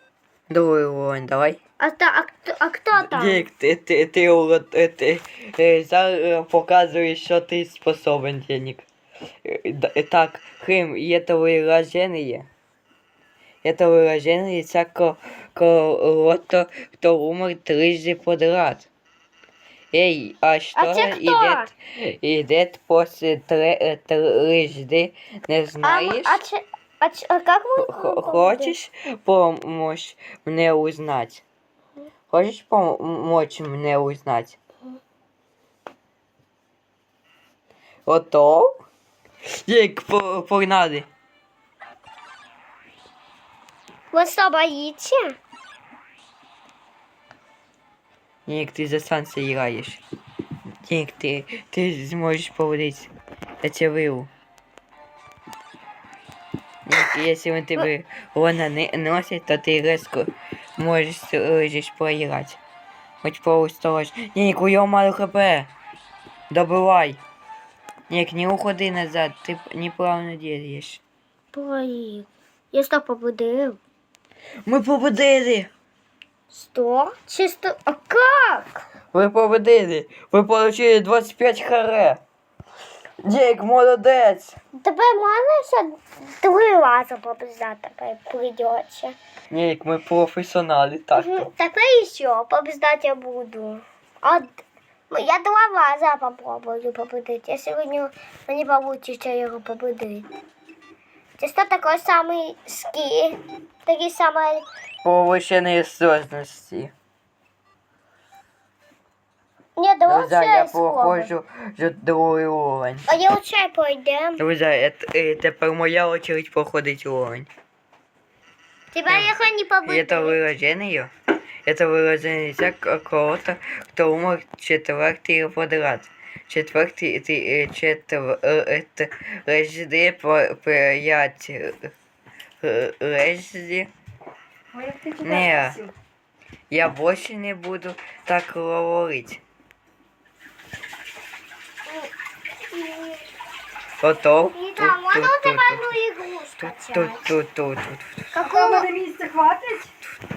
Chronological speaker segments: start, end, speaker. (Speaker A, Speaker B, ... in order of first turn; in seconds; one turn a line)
Speaker A: 0.5-1.6
Speaker B: 1.8-3.5
Speaker A: 2.9-8.8
Speaker A: 9.4-12.5
Speaker A: 13.6-18.9
Speaker A: 19.9-26.4
Speaker B: 20.8-21.7
Speaker B: 25.8-28.8
Speaker A: 27.8-31.4
Speaker A: 32.3-34.6
Speaker A: 38.0-38.8
Speaker A: 39.6-41.1
Speaker B: 44.1-45.4
Speaker A: 48.5-50.0
Speaker A: 50.8-53.1
Speaker A: 53.6-54.3
Speaker A: 56.9-62.6
Speaker A: 63.2-65.7
Speaker A: 66.5-67.2
Speaker A: 68.1-71.0
Speaker B: 71.5-73.8
Speaker A: 74.7-75.7
Speaker B: 76.5-78.8
Speaker A: 79.1-82.2
Speaker A: 83.2-84.5
Speaker B: 84.7-89.2
Speaker A: 89.5-91.5
Speaker B: 91.1-100.3
Speaker B: 101.4-104.7
Speaker A: 105.0-106.9
Speaker B: 109.8-111.3
Speaker A: 110.1-113.1
Speaker B: 113.1-114.4
Speaker A: 114.4-117.5
Speaker B: 118.9-120.4
Speaker A: 119.1-119.3
Speaker A: 119.8-121.1
Speaker A: 121.6-131.9
Speaker A: 132.6-133.9
Speaker C: 134.7-135.9
Speaker A: 135.2-135.8
Speaker A: 136.7-139.4
Speaker B: 141.8-142.1
Speaker B: 142.6-143.2
Speaker A: 144.0-145.9
Speaker B: 144.5-147.3
Speaker A: 146.6-148.3
Speaker B: 148.3-148.9
Speaker C: 148.3-149.9